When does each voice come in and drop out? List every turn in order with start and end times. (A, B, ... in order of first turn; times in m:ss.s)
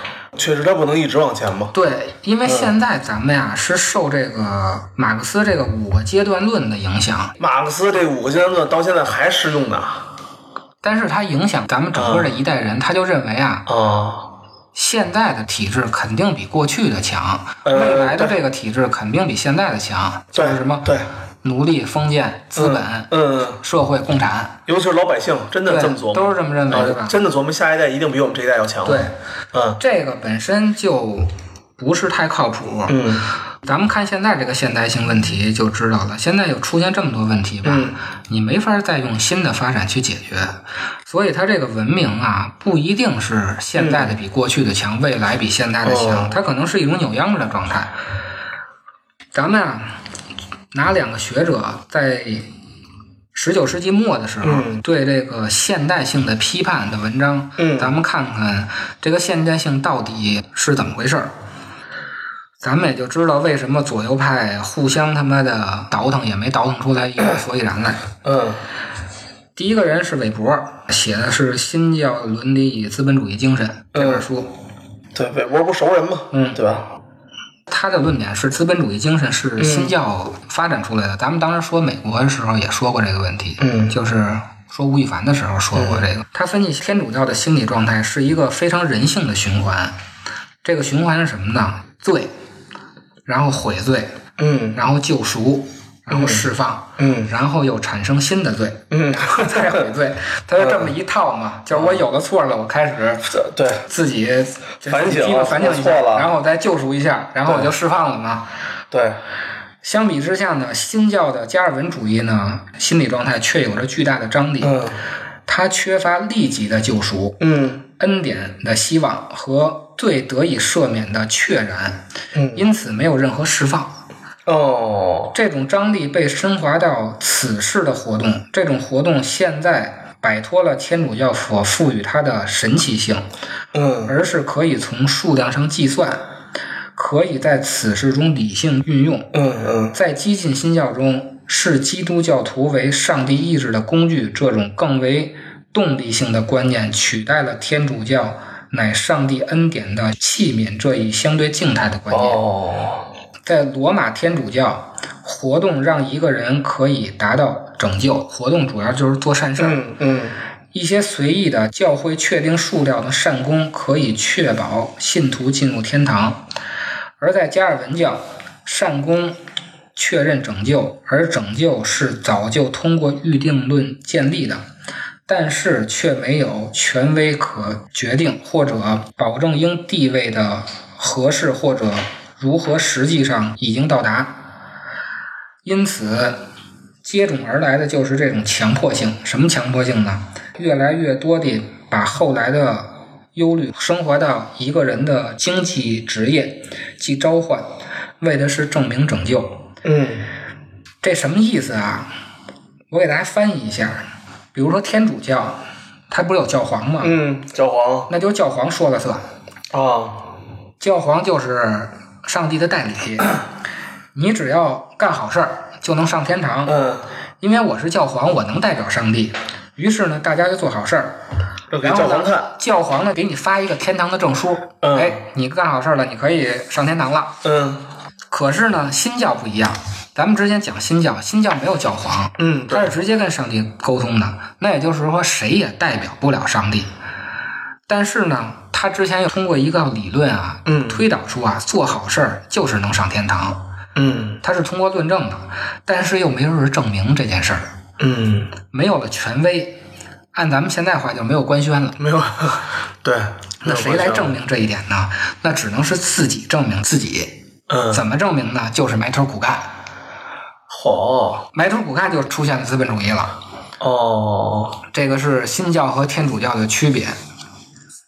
0:00.3-0:01.7 A
0:01.7-0:07.4 B
0:02.4-0:02.7 A
0:07.4-0:10.1 A
0:10.8-0:13.7 B
0:11.9-0:12.3 A
0:13.7-0:14.3 A
0:14.7-0:20.9 B
0:17.6-0:18.3 A
0:20.3-0:21.1 A
0:21.4-0:24.6 B
0:22.5-0:23.6 A
0:24.7-0:29.8 A
0:25.6-0:27.2 B
0:28.8-0:29.1 B
0:29.8-0:47.9 B
0:32.9-0:33.3 A
0:37.6-0:38.0 A
0:43.8-0:44.2 A
0:45.8-0:46.4 A
0:49.3-0:50.0 B
0:50.7-0:52.5 B
0:53.3-1:01.3 B
0:54.4-0:54.8 A
0:57.6-0:57.9 A
1:02.6-1:08.1 B
1:08.2-1:08.6 A
1:09.6-1:14.5 B
1:13.9-1:14.2 A
1:15.1-1:16.9 A
1:16.3-1:16.6 B
1:17.7-1:30.0 B
1:19.6-1:19.9 A
1:23.6-1:24.0 A
1:25.7-1:26.0 A
1:30.6-1:32.3 B
1:33.2-1:34.2 B
1:34.4-1:34.8 A
1:34.7-1:43.3 B
1:36.1-1:36.4 A
1:37.0-1:37.3 A
1:38.9-1:39.8 A
1:40.6-1:40.9 A
1:41.7-1:42.0 A
1:43.3-1:43.8 A
1:43.9-1:48.5 B
1:44.8-1:46.3 A
1:47.4-1:47.7 A
1:48.9-1:49.2 A
1:49.8-1:54.8 B
1:54.6-1:55.0 A
1:55.5-1:57.4 B
1:57.4-1:57.8 A
1:58.0-2:04.0 B
2:02.3-2:02.7 A
2:04.4-2:05.3 A
2:05.3-2:13.2 B
2:13.7-2:14.1 A
2:14.0-2:16.2 B
2:17.0-2:19.3 B
2:19.3-2:20.0 A
2:19.9-2:32.4 B
2:32.1-2:33.1 A
2:33.4-2:39.8 B
2:39.6-2:40.4 A
2:40.7-2:46.4 B
2:47.2-2:49.4 B
2:50.0-2:54.6 B
2:55.3-3:04.4 B
3:05.6-3:06.5 B
3:07.0-3:19.6 B
3:19.8-3:20.3 A
3:21.0-3:22.1 B
3:22.9-3:27.2 B
3:27.0-3:28.1 A
3:28.1-3:29.2 B
3:29.7-3:30.3 A
3:30.8-3:33.4 B
3:34.1-3:36.8 B
3:36.6-3:37.0 A
3:37.4-3:41.2 B
3:41.7-3:42.5 A
3:41.8-3:47.4 B
3:44.8-3:45.2 A
3:47.4-3:47.8 A
3:48.3-3:56.9 B
3:52.4-3:52.9 A
3:57.9-4:03.6 B
4:00.6-4:01.1 A
4:03.9-4:04.4 A
4:04.4-4:07.7 B
4:08.0-4:08.5 A
4:08.7-4:09.8 B
4:10.3-4:12.0 B
4:12.0-4:14.4 A
4:13.6-4:17.3 B
4:17.7-4:18.0 A
4:17.9-4:19.7 B
4:20.7-4:21.5 A
4:21.5-4:23.4 B
4:23.8-4:24.8 A
4:24.9-4:27.2 B